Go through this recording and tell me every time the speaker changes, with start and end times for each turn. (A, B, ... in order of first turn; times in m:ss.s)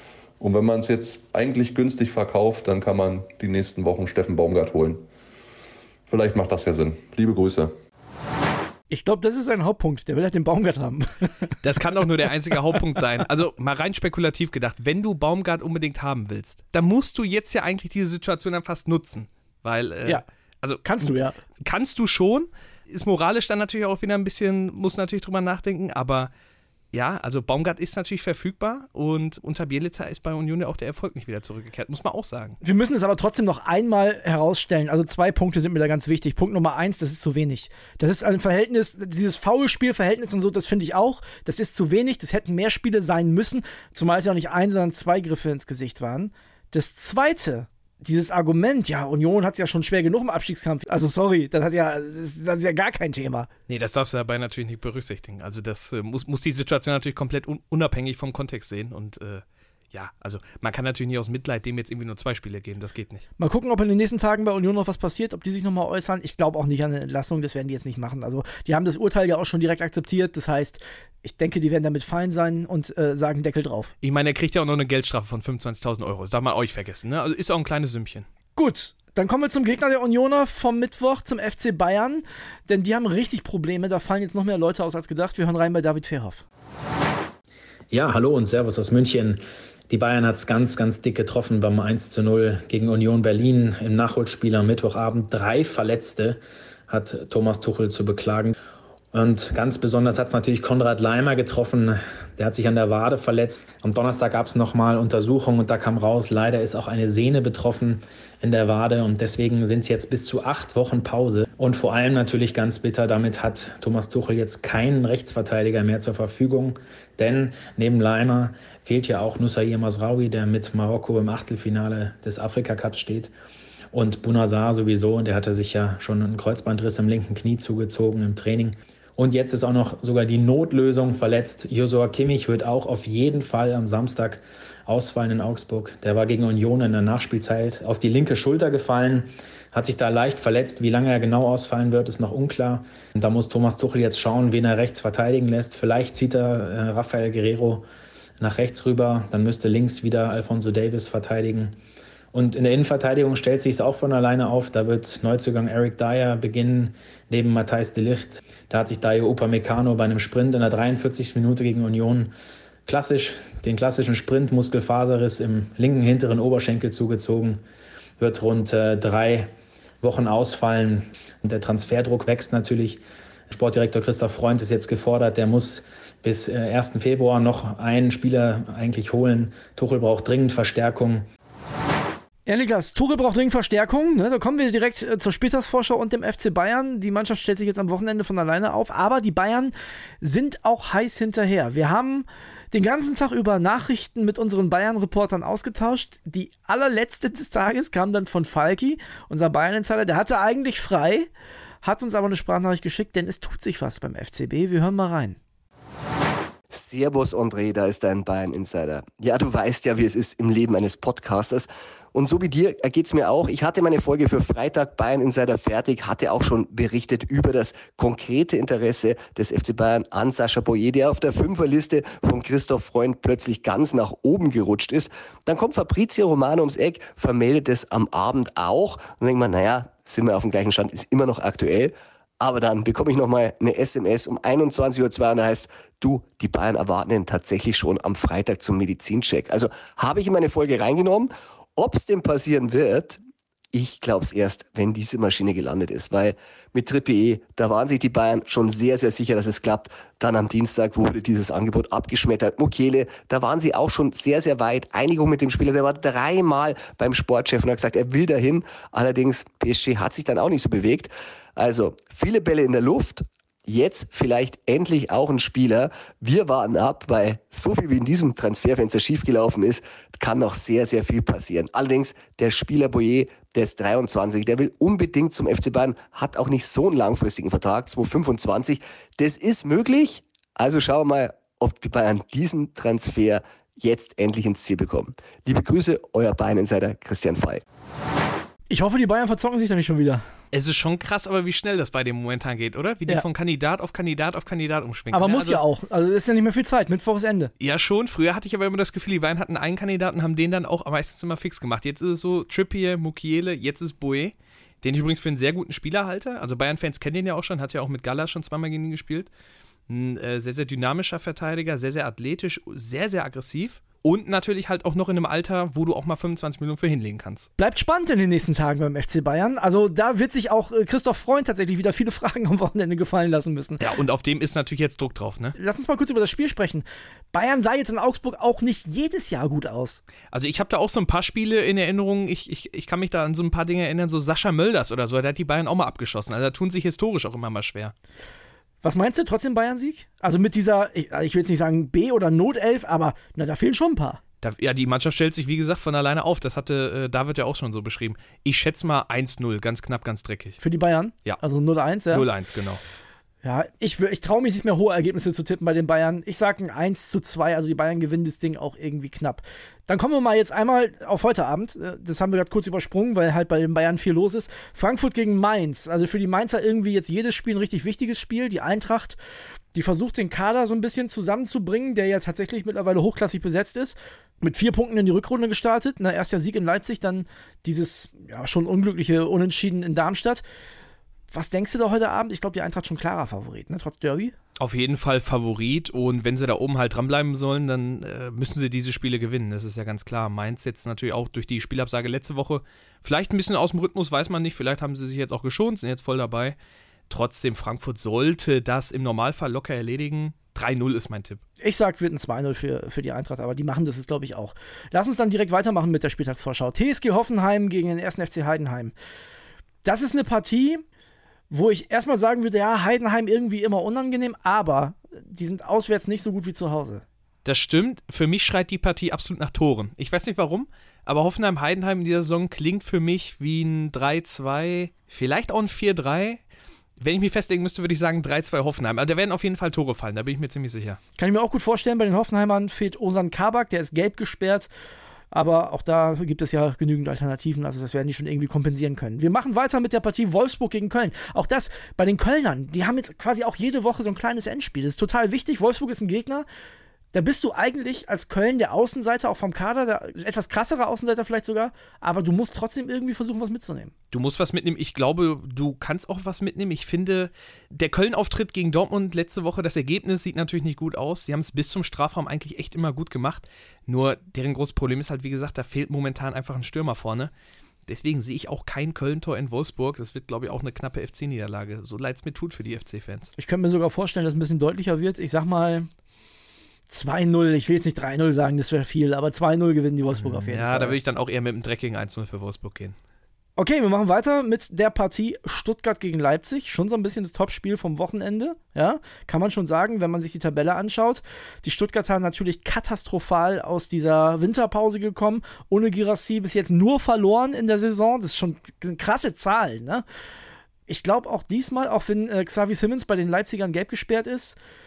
0:00.4-0:05.0 A
0:06.1-0:07.7 A
0:08.9-0:11.5 B
0:11.6-0:21.1 C
0:20.8-0:21.4 B
0:21.6-0:26.3 C
0:26.9-0:32.6 C
0:32.6-0:53.5 B
0:53.7-1:03.2 C
1:03.4-1:13.9 B
1:14.0-1:18.2 C
1:18.5-1:26.4 B
1:27.9-1:38.5 D
1:39.1-2:03.3 D
2:03.9-2:27.8 D
2:28.4-2:31.7 D
2:32.3-2:42.3 D
2:42.8-2:47.6 D
2:48.2-2:49.5 D
2:50.0-3:01.2 D
3:02.5-3:21.3 B
3:21.8-3:25.4 B
3:26.7-4:03.2 E
4:03.7-4:47.6 E
4:48.7-4:50.2 B
4:50.5-4:55.6 C
4:55.1-4:57.5 B
4:57.6-5:09.3 C
5:09.9-5:17.5 C
5:17.6-5:23.8 B
5:23.8-5:25.6 C
5:25.6-5:30.0 B
5:30.3-5:37.9 C
5:38.8-5:44.2 B
5:44.4-5:50.6 C
5:50.6-5:52.2 B
5:52.1-5:52.8 C
5:53.4-6:09.2 B
6:09.7-6:20.4 B
6:21.3-6:24.3 B
6:24.6-6:36.6 C
6:37.1-6:41.4 C
6:41.6-6:48.9 B
6:49.8-6:50.8 B
6:51.5-6:57.0 B
6:57.4-7:06.4 C
7:07.0-7:11.0 C
7:11.2-7:14.7 B
7:15.3-7:26.5 B
7:27.1-7:33.9 B
7:34.1-7:47.3 C
7:47.9-7:53.3 C
7:53.3-7:55.9 B
7:56.9-8:01.0 B
8:00.1-8:02.9 C
8:03.6-8:20.0 B
8:20.9-8:24.6 B